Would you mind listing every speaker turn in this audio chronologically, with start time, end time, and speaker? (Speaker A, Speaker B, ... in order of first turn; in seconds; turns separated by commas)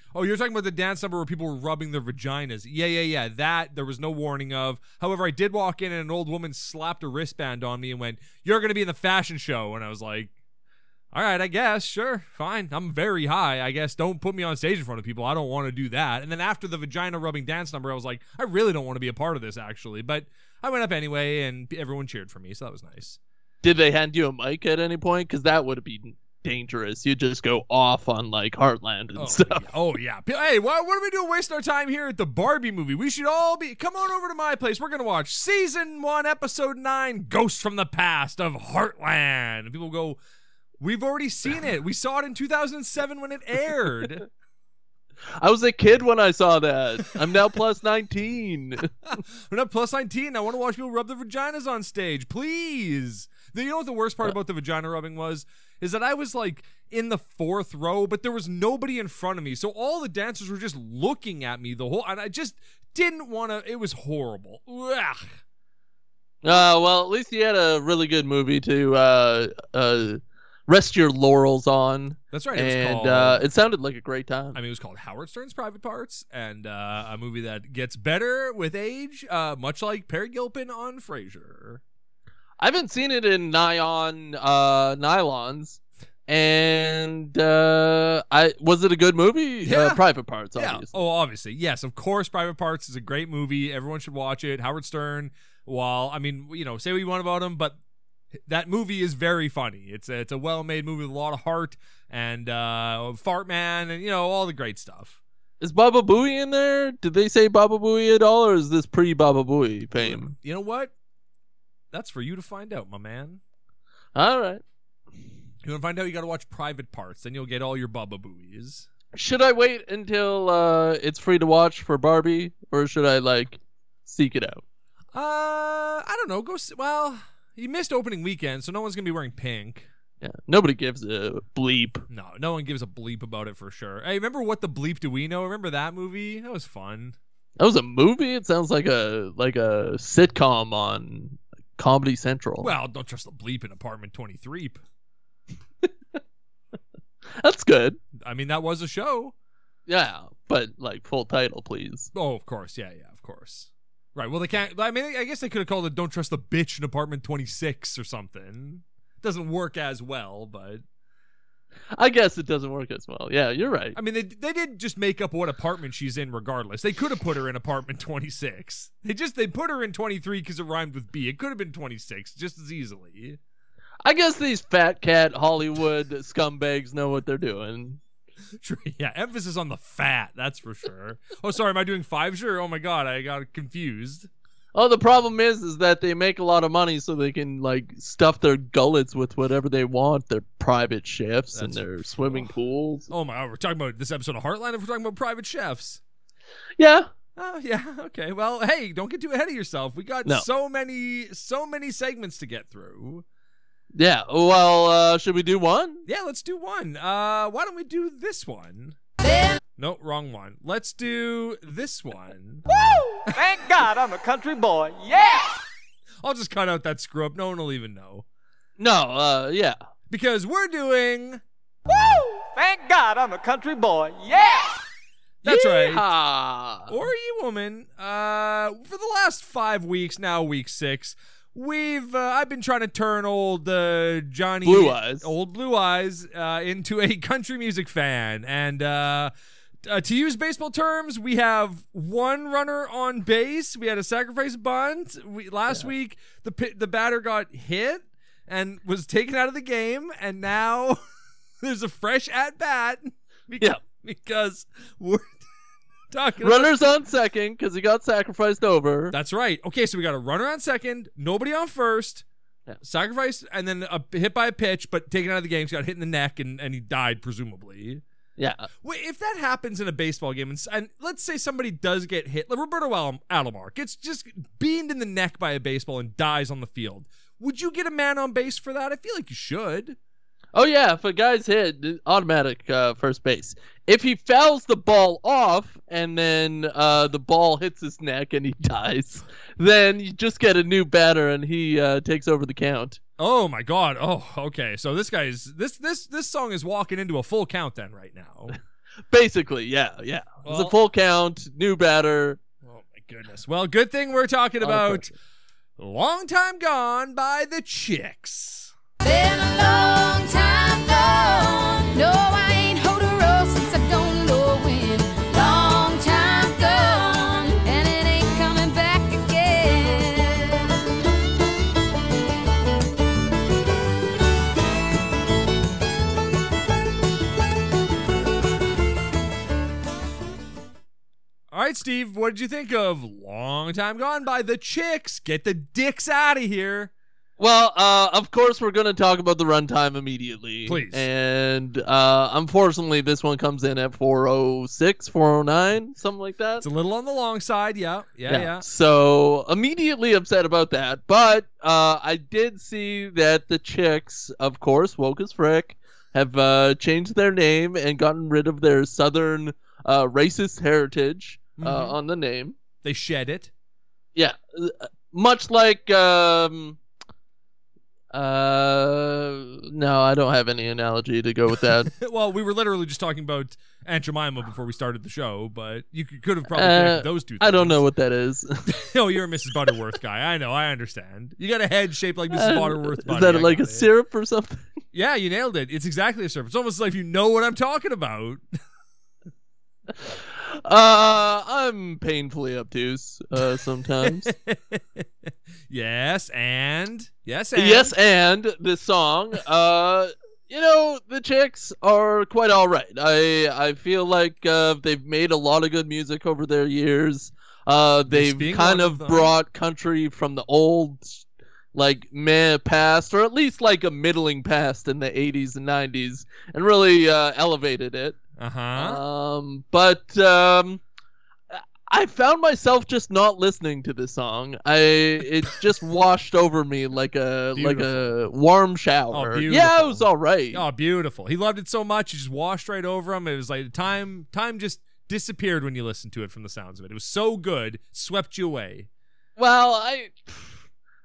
Speaker A: 0.1-10.3, Speaker A: 11.1-23.2, Speaker B: 23.6-29.7, Speaker A: 29.1-40.2, Speaker A: 40.8-44.2, Speaker B: 45.4-48.9, Speaker A: 49.1-65.3, Speaker B: 66.4-74.6, Speaker A: 72.3-73.4, Speaker A: 74.5-81.8, Speaker B: 82.6-90.9, Speaker A: 89.6-90.0, Speaker A: 90.5-97.8, Speaker A: 98.4-105.2, Speaker B: 105.6-110.3, Speaker A: 110.0-110.9, Speaker A: 111.9-113.4, Speaker B: 114.1-114.6, Speaker A: 115.6-118.9, Speaker B: 119.1-124.6, Speaker A: 125.1-129.9, Speaker B: 130.2-132.0, Speaker A: 132.1-137.2, Speaker B: 137.6-142.7, Speaker A: 142.6-144.8, Speaker B: 147.3-148.0, Speaker A: 148.2-149.3, Speaker B: 149.9-152.1, Speaker A: 152.1-160.8, Speaker B: 161.9-164.0, Speaker A: 163.9-173.4, Speaker B: 174.0-178.0, Speaker A: 178.6-184.3, Speaker B: 184.7-193.1, Speaker A: 191.5-192.5, Speaker A: 193.1-196.0, Speaker B: 196.8-197.1, Speaker A: 197.3-203.2, Speaker B: 203.9-206.1, Speaker A: 206.1-208.9, Speaker C: 209.2-209.6, Speaker A: 209.8-212.6, Speaker D: 212.7-215.6, Speaker A: 216.2-218.2, Speaker B: 218.8-219.8, Speaker A: 220.1-221.4, Speaker D: 221.8-224.8, Speaker A: 225.4-226.1, Speaker B: 225.4-226.9, Speaker A: 226.9-239.3, Speaker B: 234.6-235.3, Speaker A: 239.8-251.0, Speaker A: 251.6-255.4, Speaker A: 256.1-256.7, Speaker B: 256.4-259.1, Speaker A: 259.1-262.2, Speaker A: 262.8-268.0, Speaker B: 268.4-268.7, Speaker A: 268.8-280.0, Speaker B: 280.5-293.0, Speaker A: 293.2-298.5, Speaker B: 299.1-302.4, Speaker A: 300.4-300.7, Speaker A: 302.6-305.1, Speaker B: 304.6-305.1, Speaker A: 305.8-308.7, Speaker C: 309.0-320.9, Speaker A: 331.5-336.9, Speaker B: 337.4-346.6, Speaker A: 340.6-341.1, Speaker A: 346.6-348.6, Speaker B: 348.3-362.6, Speaker A: 361.6-362.0, Speaker A: 362.8-363.5, Speaker B: 364.1-366.8, Speaker B: 368.1-371.9, Speaker A: 371.9-377.8, Speaker B: 376.5-378.7, Speaker A: 378.7-383.9, Speaker B: 382.3-384.7, Speaker A: 384.9-388.4, Speaker B: 390.0-394.3, Speaker A: 394.0-397.9, Speaker B: 397.5-418.2, Speaker A: 408.1-409.4, Speaker A: 418.4-419.0, Speaker B: 418.7-420.8, Speaker B: 421.5-430.6, Speaker A: 427.6-428.1, Speaker A: 429.1-438.9, Speaker B: 439.4-440.6